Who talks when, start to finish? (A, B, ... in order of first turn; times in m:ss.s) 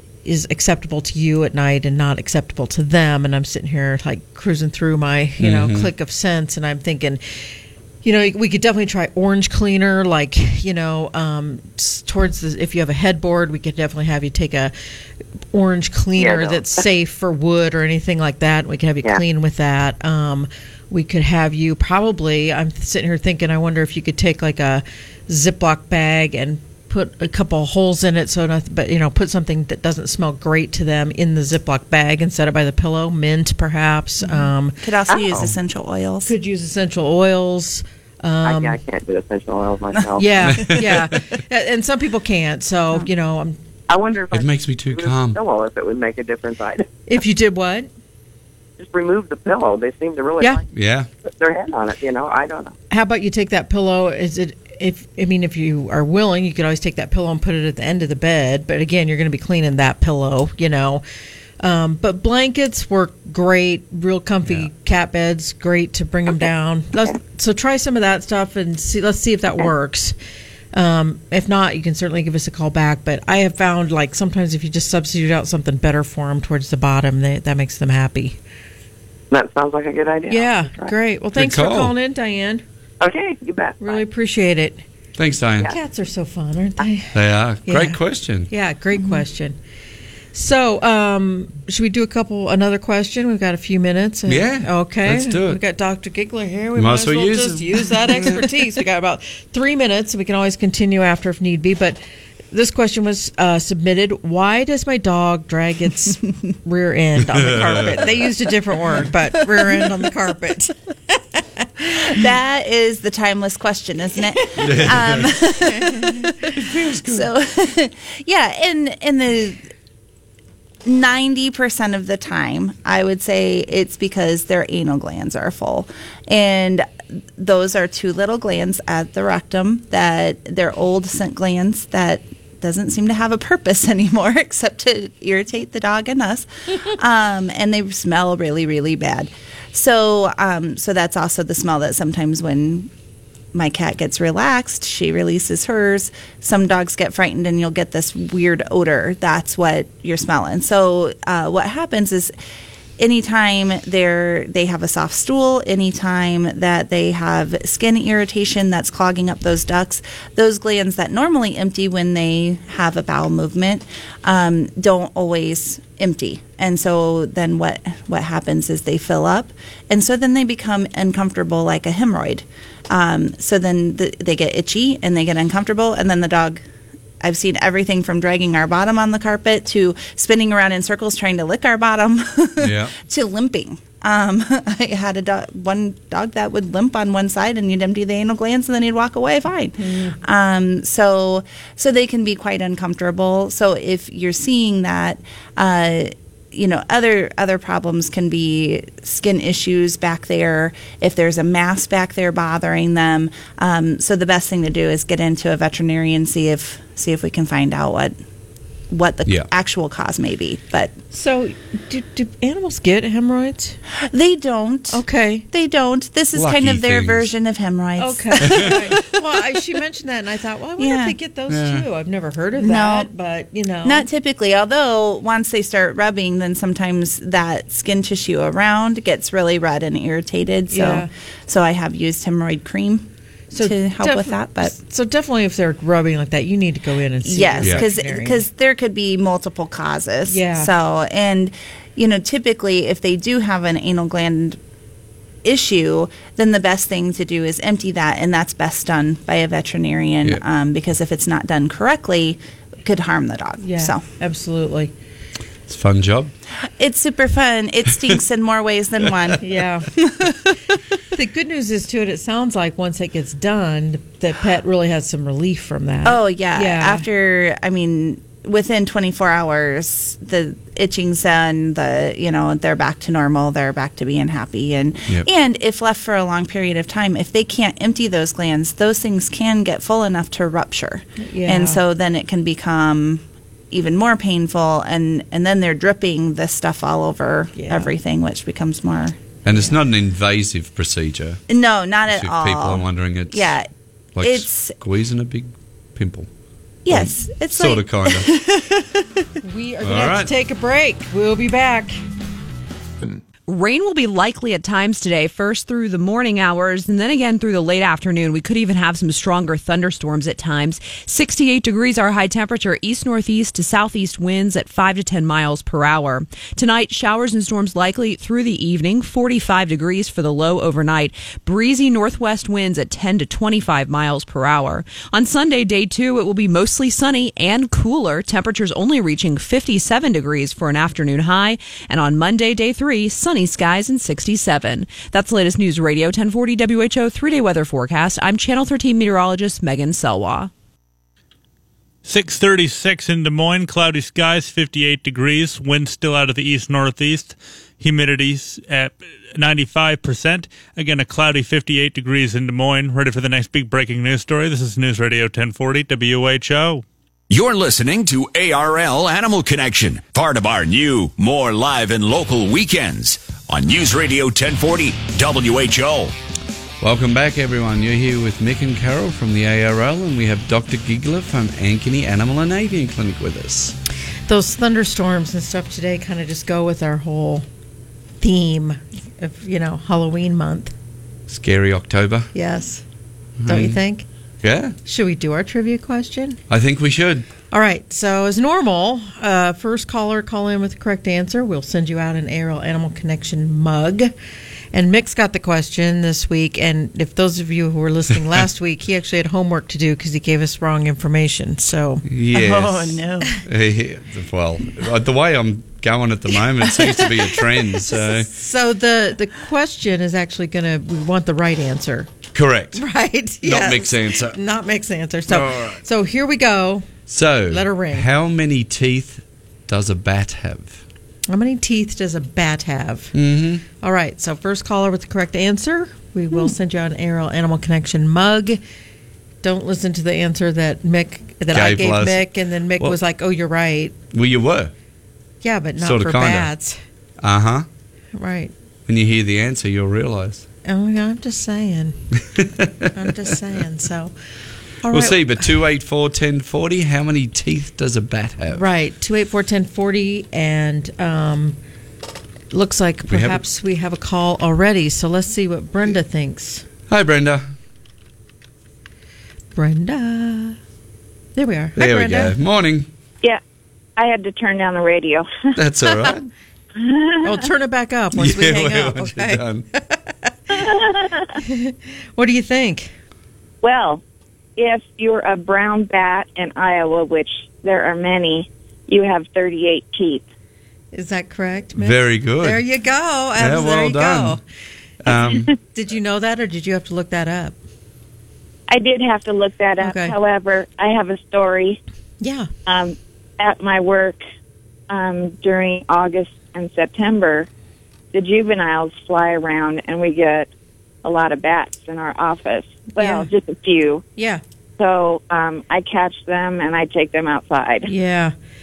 0:00.2-0:07.5 A
0:05.4-0:05.9 B
0:08.0-0:14.7 A
0:15.5-0:34.8 A
0:16.2-0:16.6 C
0:34.2-0:36.3 D
0:36.3-0:38.8 A
0:38.4-0:40.7 C
0:40.2-0:43.6 A
0:40.4-0:41.0 B
0:43.9-0:46.9 C
0:44.3-0:45.4 B
0:47.1-0:47.9 A
0:48.8-0:50.7 C
0:50.7-0:51.1 B
0:51.3-0:52.7 C
0:52.9-1:01.0 A
1:01.6-1:10.2 A
1:04.4-1:04.7 B
1:10.7-1:18.4 A
1:19.3-1:20.9 C
1:20.3-1:22.6 A
1:21.4-1:21.9 B
1:23.0-1:24.0 C
1:23.8-1:24.8 A
1:25.2-1:25.7 B
1:25.6-1:27.2 A
1:27.1-1:28.5 B
1:27.7-1:29.6 A
1:30.3-1:42.0 A
1:34.3-1:35.6 B
1:36.8-1:38.5 B
1:42.5-1:52.2 A
1:47.2-1:48.2 B
1:52.1-1:59.6 D
1:54.6-1:55.4 B
1:54.7-1:56.6 A
1:56.6-1:57.3 B
2:00.8-2:22.9 D
2:23.5-2:32.3 D
2:33.0-2:56.6 D
2:57.2-3:28.2 D
3:02.6-3:02.9 B
3:09.8-3:10.2 A
3:28.9-3:30.9 D
3:31.1-3:33.8 A
3:34.1-3:39.0 D
3:34.9-3:35.5 A
3:36.3-3:37.3 B
3:38.0-3:44.1 A
3:40.8-3:41.2 D
3:41.5-3:41.9 B
3:42.6-3:43.1 D
3:43.8-3:54.8 D
3:50.7-3:51.1 A
3:53.5-3:58.4 A
3:57.2-4:04.6 D
4:00.3-4:00.7 A
4:05.4-4:14.0 D
4:13.6-4:14.9 A
4:15.7-4:16.3 B
4:16.8-4:19.4 D
4:19.4-4:19.9 A
4:20.0-4:20.3 D
4:21.1-4:27.0 A
4:26.0-4:49.2 D
4:41.2-4:41.8 A
4:47.6-4:47.9 A
4:49.4-4:51.4 B
4:51.5-4:53.7 D
4:52.1-4:53.6 B
4:54.2-4:56.3 B
4:54.2-4:54.8 D
4:56.8-4:58.8 D
4:56.9-4:58.3 B
4:59.4-5:02.0 A
4:59.8-5:00.3 B
5:03.5-5:40.5 E
5:42.0-5:56.8 F
5:57.3-6:06.2 G
6:06.8-6:13.8 B
6:14.3-6:17.5 A
6:18.2-6:20.7 A
6:21.3-6:22.3 B
6:22.3-6:22.8 A
6:23.4-6:23.8 B
6:23.5-6:24.1 A
6:24.4-6:24.8 B
6:24.8-6:26.4 A
6:26.5-6:27.3 B
6:27.5-6:34.1 A
6:34.7-6:42.1 A
6:42.1-6:48.3 B
6:42.3-6:43.4 D
6:46.6-6:52.1 A
6:52.3-6:52.8 B
6:52.8-6:56.9 A
6:53.4-6:54.4 B
6:55.3-6:55.8 B
6:57.1-7:00.8 B
6:57.5-6:58.1 A
7:01.3-7:03.1 A
7:03.1-7:03.6 B
7:03.8-7:08.6 A
7:09.4-7:14.0 A
7:11.5-7:13.0 B
7:14.1-7:14.7 B
7:15.4-7:16.8 A
7:15.8-7:16.5 B
7:17.2-7:17.7 B
7:18.1-7:18.5 A
7:18.9-7:20.5 B
7:20.6-7:22.0 A
7:22.2-7:22.9 B
7:22.9-7:24.1 A
7:24.8-7:25.5 A
7:24.9-7:28.7 B
7:28.5-7:31.6 A
7:32.5-7:36.6 A
7:33.1-7:33.4 B
7:36.9-7:37.5 B
7:39.6-7:40.6 A
7:41.4-7:42.3 A
7:41.8-7:42.9 B
7:44.0-7:45.6 H
7:45.6-7:46.3 B
7:46.8-7:47.3 H
7:47.2-7:50.7 A
7:48.2-7:49.7 B
7:50.5-7:51.4 H
7:51.4-7:52.9 A
7:53.6-7:54.0 H
7:54.6-8:00.2 H
8:00.9-8:04.4 A
8:01.8-8:02.6 B
8:03.4-8:04.4 B
8:05.0-8:05.5 B
8:05.1-8:07.6 A
8:05.1-8:05.5 H
8:08.7-8:11.8 H
8:09.8-8:10.2 A
8:12.2-8:12.5 A
8:12.7-8:14.2 H
8:14.9-8:17.5 H
8:18.1-8:20.5 H
8:21.0-8:24.0 H
8:23.0-8:23.3 A
8:24.2-8:24.4 A
8:24.8-8:27.9 H
8:27.9-8:28.3 A